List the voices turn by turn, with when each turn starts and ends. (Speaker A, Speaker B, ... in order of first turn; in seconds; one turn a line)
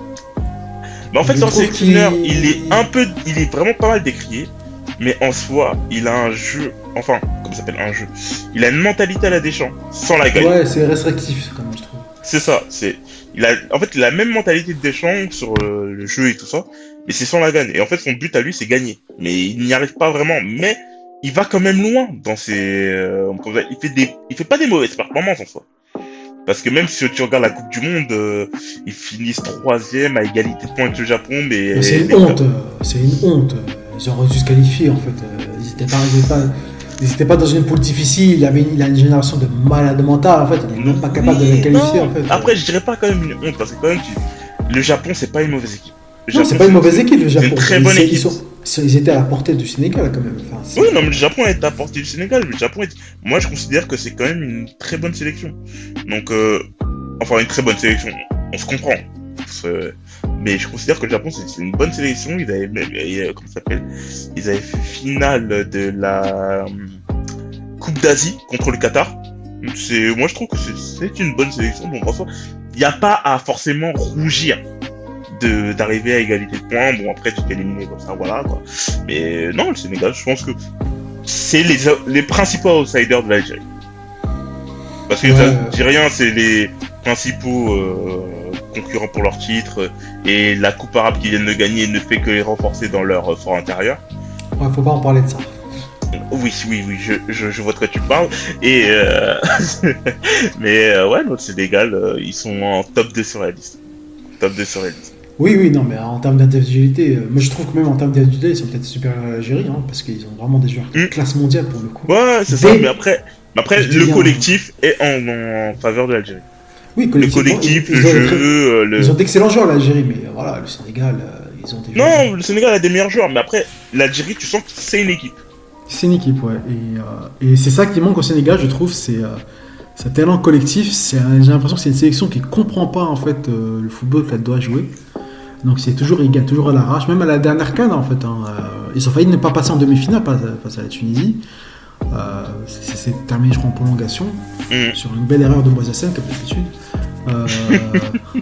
Speaker A: 1.1-10.5
Speaker B: 1.2-2.8
Speaker B: 10.3-12.1
Speaker A: 12.2-25.6
Speaker A: 26.4-32.4
Speaker B: 31.7-42.6
Speaker A: 40.8-48.4
Speaker B: 46.3-51.2
Speaker A: 50.7-55.5
Speaker A: 56.0-56.6
Speaker A: 57.2-67.0
Speaker A: 67.8-74.6
Speaker A: 75.3-80.5
Speaker A: 81.2-83.6
Speaker A: 85.1-94.0
Speaker B: 85.2-85.8
Speaker B: 94.6-95.6
Speaker A: 96.3-103.8
Speaker A: 104.4-105.1
Speaker B: 105.4-112.9
Speaker A: 112.1-116.4
Speaker B: 113.8-114.5
Speaker B: 116.9-122.3
Speaker A: 117.2-119.1
Speaker A: 122.0-125.4
Speaker B: 125.9-129.4
Speaker B: 129.9-135.0
Speaker B: 135.6-141.4
Speaker B: 142.1-146.7
Speaker A: 144.7-145.0
Speaker B: 147.2-148.2
Speaker A: 147.7-147.9